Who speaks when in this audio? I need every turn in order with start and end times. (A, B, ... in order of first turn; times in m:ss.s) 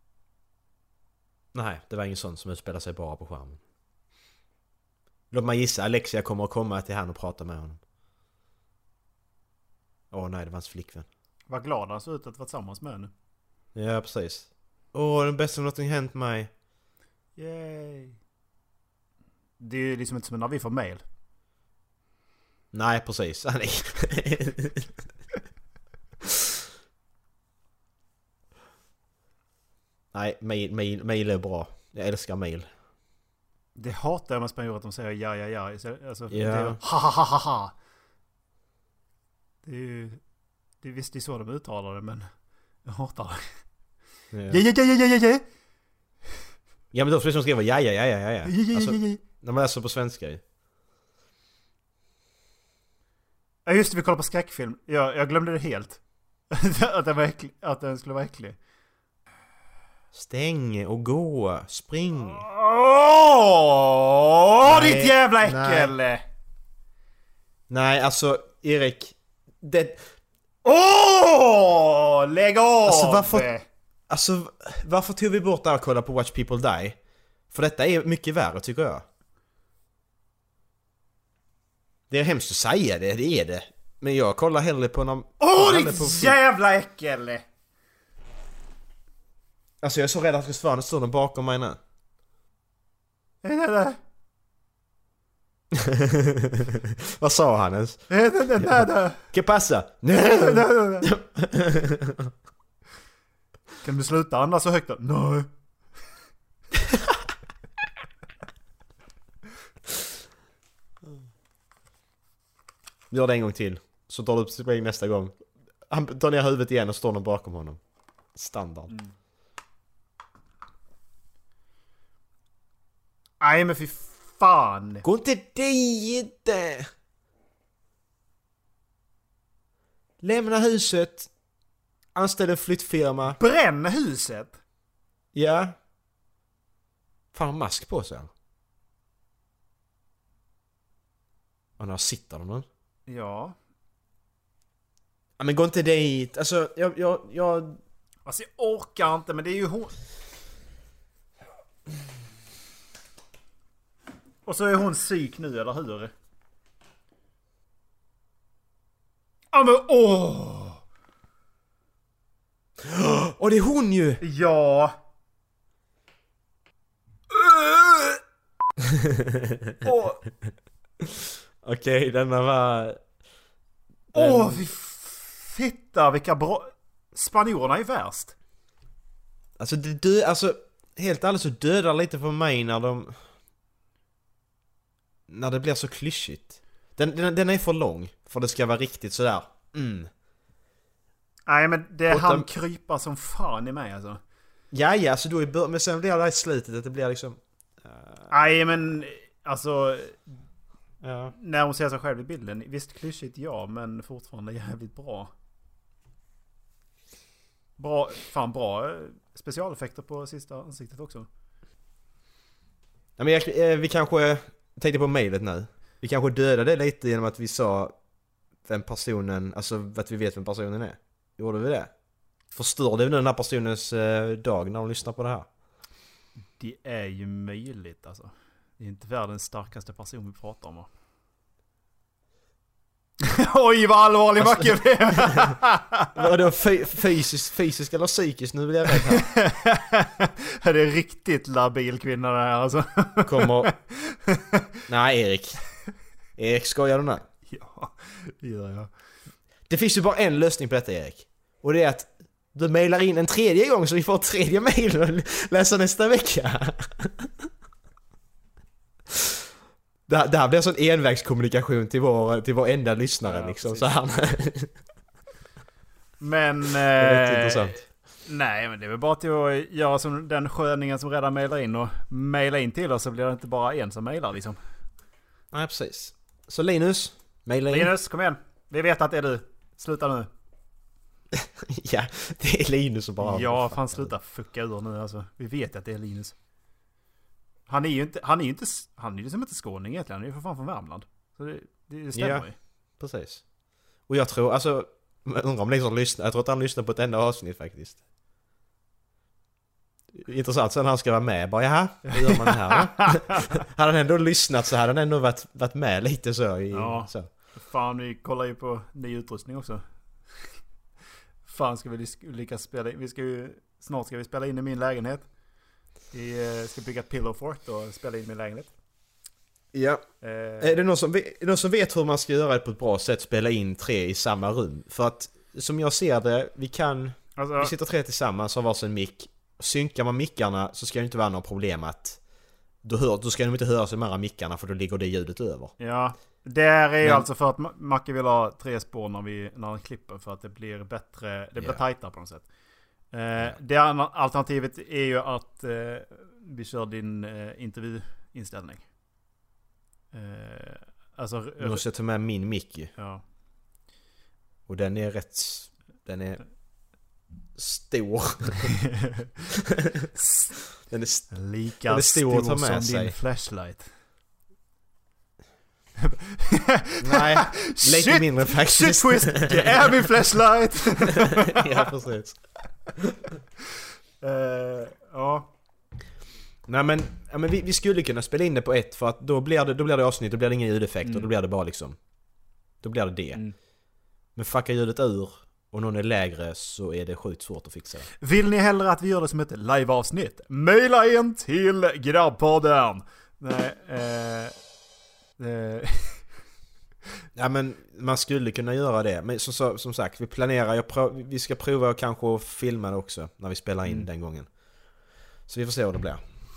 0:01.5-0:03.6 A
0:05.3-0:07.8 A
0:10.1-0:11.1 A
0:11.5-0:13.1 B
0:13.7-0:16.5 A
0:17.4-0:18.2 B
0:19.6-0:21.0 B
0:22.7-0:24.9 A
0:26.2-0:26.5 A
0:30.1-0:32.7 A
0:33.8-0:37.7 B
0:36.3-0:36.8 A
0:39.6-0:40.2 B
0:40.8-0:42.3 B
0:42.8-0:43.4 B
0:44.3-0:44.6 A
0:44.5-0:45.4 B
0:46.9-0:50.4 A
0:48.4-0:49.2 B
0:53.6-0:56.0 B
0:56.5-0:58.6 B
1:00.1-1:02.4 A
1:02.2-1:06.2 B
1:04.6-1:05.9 A
1:07.7-1:10.1 A
1:10.6-1:13.6 B
1:12.8-1:13.5 A
1:14.1-1:17.0 A
1:17.5-1:19.0 A
1:22.1-1:26.4 A
1:25.4-1:27.4 B
1:29.8-1:31.8 A
1:33.4-1:34.0 B
1:35.7-1:42.3 A
1:38.1-1:39.2 B
1:40.2-1:41.1 B
1:43.8-1:45.5 B
1:53.1-1:55.3 A
1:55.9-1:57.8 A
1:58.3-1:58.9 A
2:03.4-2:05.0 B
2:05.0-2:06.9 A
2:10.2-2:11.3 A
2:12.1-2:13.4 A
2:13.3-2:14.6 B
2:15.3-2:15.8 A
2:17.3-2:18.3 A
2:21.8-2:22.7 A
2:23.1-2:23.6 B
2:25.4-2:27.8 A
2:28.2-2:29.9 B
2:34.4-2:36.1 B
2:39.5-2:40.8 B
2:42.8-2:44.2 A
2:44.2-2:44.9 B
2:47.3-2:48.2 B
2:48.9-2:49.7 A
2:49.8-2:50.2 B
2:51.6-2:53.0 A
2:54.1-2:54.6 A
2:54.1-2:58.3 B
2:59.6-3:03.2 A
3:05.3-3:10.1 A
3:11.5-3:14.2 B
3:12.1-3:12.5 A
3:14.7-3:18.3 A
3:18.3-3:20.3 B
3:21.0-3:21.3 A
3:21.3-3:25.3 B
3:27.8-3:31.3 B
3:33.2-3:38.0 A
3:38.6-3:41.9 A
3:42.5-3:45.5 A
3:46.6-3:50.9 B
3:53.2-3:56.1 B
3:54.4-3:55.6 A
3:56.1-3:59.3 A
3:59.1-4:04.6 B
4:03.2-4:03.7 A
4:04.9-4:05.6 A
4:06.4-4:07.2 A
4:07.5-4:08.9 B
4:09.7-4:17.3 A
4:20.1-4:24.7 A
4:23.2-4:23.9 B
4:26.2-4:34.6 B
4:27.0-4:27.8 A
4:35.5-4:37.9 A
4:37.7-4:40.3 B
4:41.3-4:44.1 A
4:43.2-4:46.3 B
4:47.7-4:52.5 B
4:52.1-4:52.5 A
4:53.0-4:53.4 A
4:54.1-4:58.0 A
5:00.1-5:07.3 A
5:02.1-5:03.4 B
5:06.7-5:09.8 B
5:11.4-5:15.2 B
5:16.1-5:18.7 B
5:19.7-5:20.0 A
5:20.2-5:20.8 B
5:20.6-5:32.2 A
5:27.4-5:27.7 B
5:32.8-5:35.7 A
5:35.8-5:42.4 B
5:37.0-5:37.3 A
5:43.1-5:48.8 B
5:50.1-5:51.8 B
5:51.6-5:52.9 A
5:53.0-5:53.2 B
5:54.7-5:56.4 A
5:57.6-5:58.7 A
5:59.0-5:59.2 B
5:59.8-6:00.1 A
6:00.1-6:00.6 B
6:00.8-6:03.1 A
6:01.3-6:03.9 B
6:06.0-6:11.8 B
6:07.0-6:10.1 A
6:11.0-6:12.4 A
6:14.2-6:15.5 B
6:16.7-6:22.0 A
6:21.0-6:21.3 B
6:22.8-6:23.4 A
6:24.3-6:28.1 A
6:28.2-6:34.5 B
6:35.4-6:36.2 B
6:37.4-6:44.5 A
6:45.5-6:46.2 A